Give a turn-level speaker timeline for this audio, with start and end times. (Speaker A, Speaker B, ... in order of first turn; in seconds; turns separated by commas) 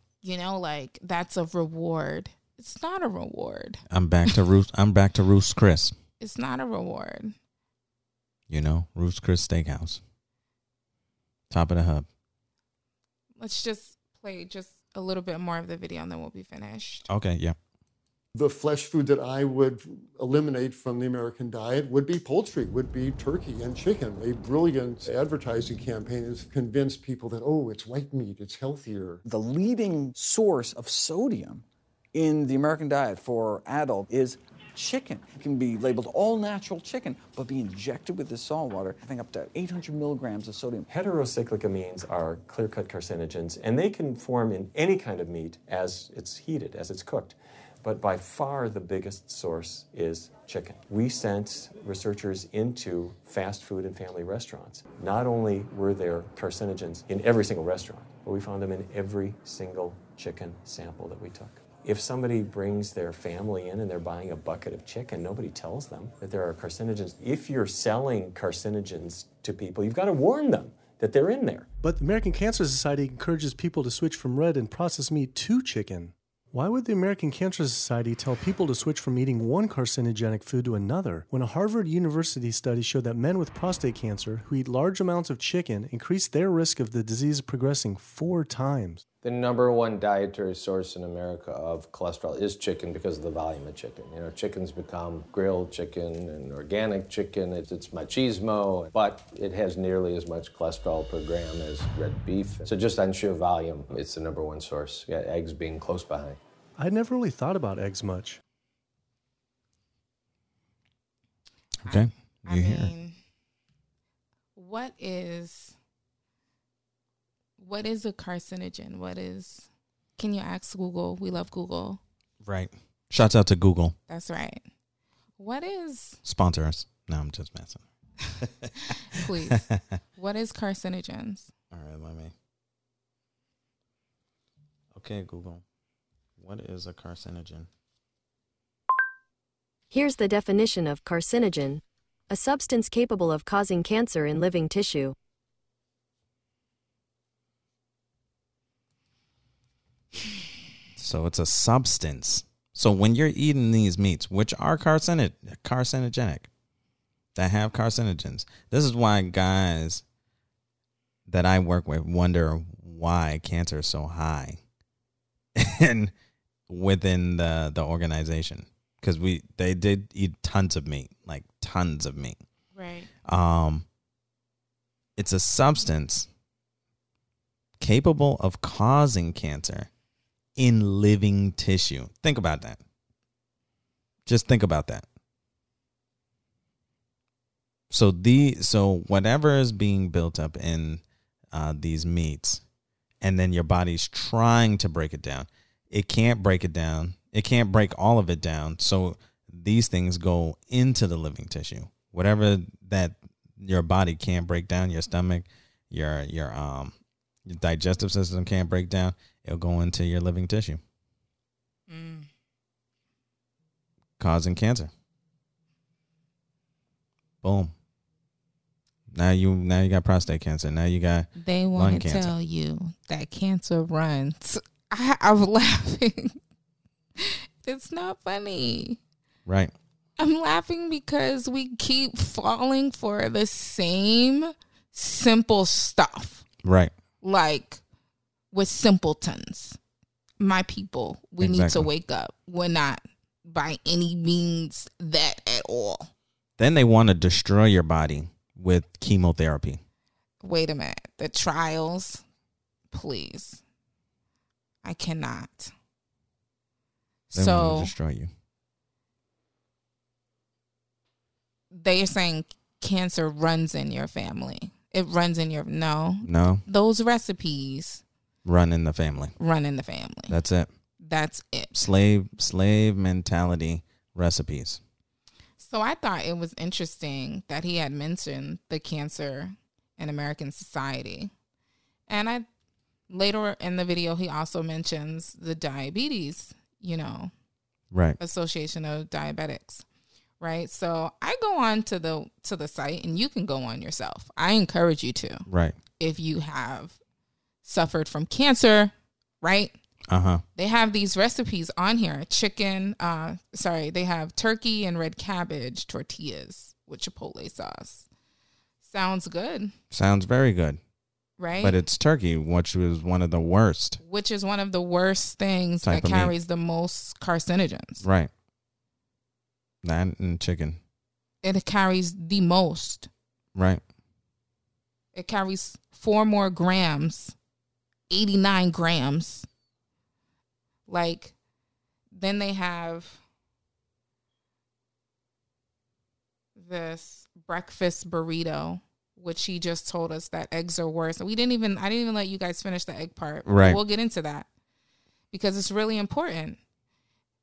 Speaker A: 0.2-4.3, Speaker B: 3.9-5.9, Speaker A: 6.2-7.3, Speaker B: 8.5-10.0, Speaker B: 11.5-12.1, Speaker A: 13.4-17.0, Speaker B: 17.1-17.6, Speaker C: 18.3-29.2, Speaker D: 29.2-40.9, Speaker E: 40.9-71.7, Speaker F: 71.8-89.0, Speaker G: 89.2-106.4, Speaker F: 106.8-108.4, Speaker A: 111.8-113.2, Speaker B: 111.9-112.9, Speaker A: 114.5-115.7, Speaker A: 117.6-122.0, Speaker B: 122.4-124.0, Speaker A: 124.1-124.6, Speaker A: 125.4-126.2, Speaker B: 126.2-127.8, Speaker B: 128.4-128.7, Speaker A: 128.9-129.6, Speaker B: 129.5-129.8, Speaker A: 130.2-131.5, Speaker B: 131.7-132.3, Speaker B: 134.9-135.6, Speaker B: 136.4-137.7, Speaker H: 139.9-145.1, Speaker B: 151.0-156.5, Speaker B: 157.3-160.0, Speaker B: 161.3-164.6, Speaker B: 165.6-166.1, Speaker B: 166.7-172.4, Speaker A: 172.7-173.1, Speaker B: 173.2-173.8, Speaker B: 175.2-176.3, Speaker B: 177.8-179.9, Speaker B: 180.6-182.8, Speaker B: 184.2-185.0, Speaker B: 187.9-192.6, Speaker B: 193.2-206.9, Speaker B: 207.4-210.8, Speaker A: 211.9-212.3, Speaker B: 214.2-214.9, Speaker B: 217.4-217.7, Speaker B: 219.1-222.3, Speaker A: 221.3-226.3, Speaker A: 227.2-229.0, Speaker B: 229.4-229.7, Speaker A: 230.2-236.4, Speaker B: 236.6-236.9, Speaker A: 237.2-237.8, Speaker A: 238.5-239.8, Speaker A: 240.4-246.1, Speaker B: 241.4-241.9, Speaker B: 246.6-249.8, Speaker A: 250.4-252.2, Speaker A: 252.9-253.6, Speaker A: 254.8-255.7, Speaker A: 257.3-257.9, Speaker B: 257.3-258.3, Speaker A: 261.7-268.0, Speaker B: 266.2-266.6, Speaker B: 268.4-269.3, Speaker A: 269.4-270.4, Speaker B: 270.3-270.7, Speaker A: 271.0-271.7, Speaker B: 271.7-274.8, Speaker A: 275.6-281.3, Speaker A: 282.1-282.4, Speaker A: 283.1-287.3, Speaker B: 287.9-288.2, Speaker A: 288.2-289.8, Speaker A: 290.4-295.4, Speaker B: 295.5-295.8, Speaker A: 296.0-297.0, Speaker A: 297.6-299.7, Speaker B: 300.1-300.4, Speaker A: 300.6-308.1, Speaker A: 308.8-309.7, Speaker B: 309.9-310.8, Speaker A: 311.4-311.8, Speaker B: 311.6-314.0, Speaker A: 314.0-318.0, Speaker B: 315.8-316.3, Speaker B: 318.0-318.3, Speaker B: 319.8-320.8, Speaker A: 321.4-323.1, Speaker B: 323.5-323.8, Speaker A: 325.1-327.3, Speaker A: 328.1-329.5, Speaker A: 330.9-331.3, Speaker A: 332.1-333.2, Speaker A: 336.6-344.5, Speaker B: 343.4-343.8, Speaker A: 345.3-346.6